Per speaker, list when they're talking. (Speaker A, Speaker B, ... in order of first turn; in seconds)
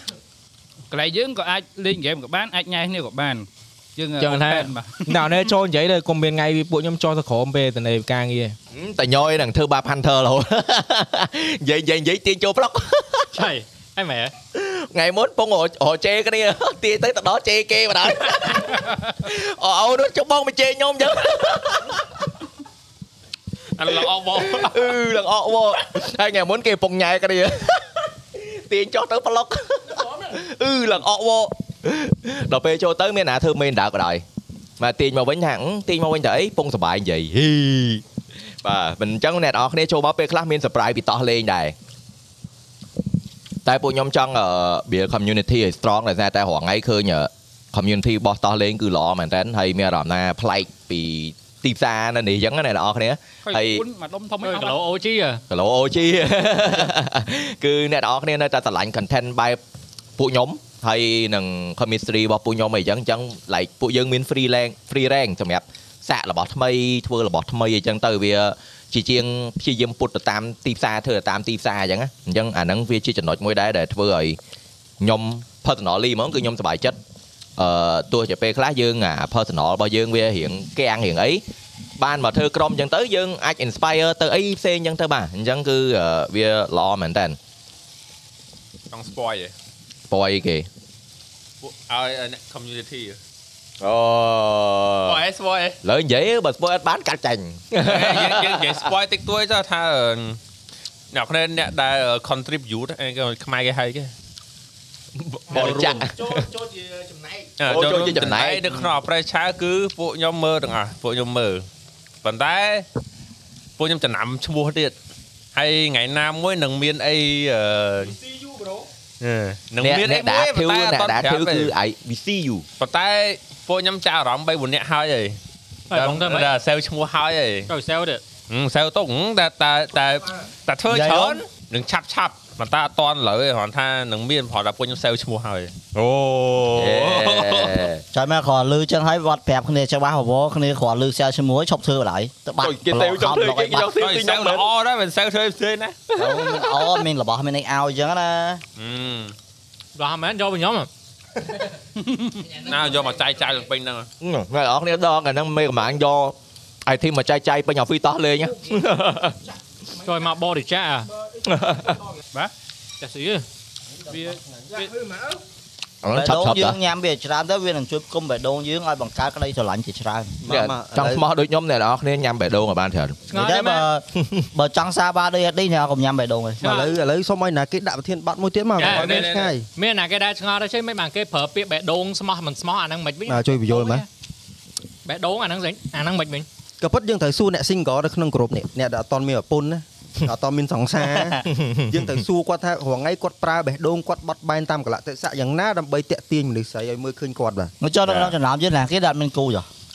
Speaker A: 0.9-5.2, 53.4-54.8, 152.0-152.3, 164.1-164.9
Speaker B: 4.2-8.5
Speaker C: 8.7-13.4, 14.5-22.0, 23.8-34.2, 34.8-38.0, 38.6-41.7, 43.6-53.8, 55.5-59.6, 60.2-74.4, 75.0-77.0, 77.6-81.4, 82.0-87.4, 90.1-90.7, 93.8-95.2, 95.8-98.8, 105.2-106.5, 107.6-108.7, 119.8-122.6, 136.0-138.0, 142.6-144.7, 154.2-159.4, 161.4-162.0, 166.0-166.8, 170.4-173.2, 174.2-174.4, 191.4-192.1, 198.1-198.3
Speaker D: 13.3-14.3, 54.4-55.4, 125.9-126.5, 127.7-128.2, 149.9-150.9, 160.0-161.1, 163.0-163.4, 173.3-173.9, 176.6-176.9, 178.8-184.1, 185.0-186.4
Speaker E: 23.8-24.9, 88.9-89.5, 91.6-93.2, 95.0-95.8, 97.8-100.4, 101.1-104.1, 105.5-106.0, 107.6-111.7, 112.2-112.8, 113.8-114.9, 115.5-118.2, 119.2-121.7, 122.8-125.4, 125.9-127.7, 128.5-137.9, 144.0-146.7, 148.8-149.3, 152.6-154.1, 178.8-179.5
Speaker F: 30.0-30.3, 105.5-107.6, 118.0-118.9, 152.4-153.7, 158.4-160.4, 161.1-162.2, 164.1-165.4
Speaker G: 130.9-131.4, 138.1-143.9, 146.2-148.6, 166.1-170.4, 173.3-176.6, 191.2-191.4, 197.8-199.7
Speaker H: 170.4-171.2, 176.6-179.7, 183.3-184.1, 186.8-197.7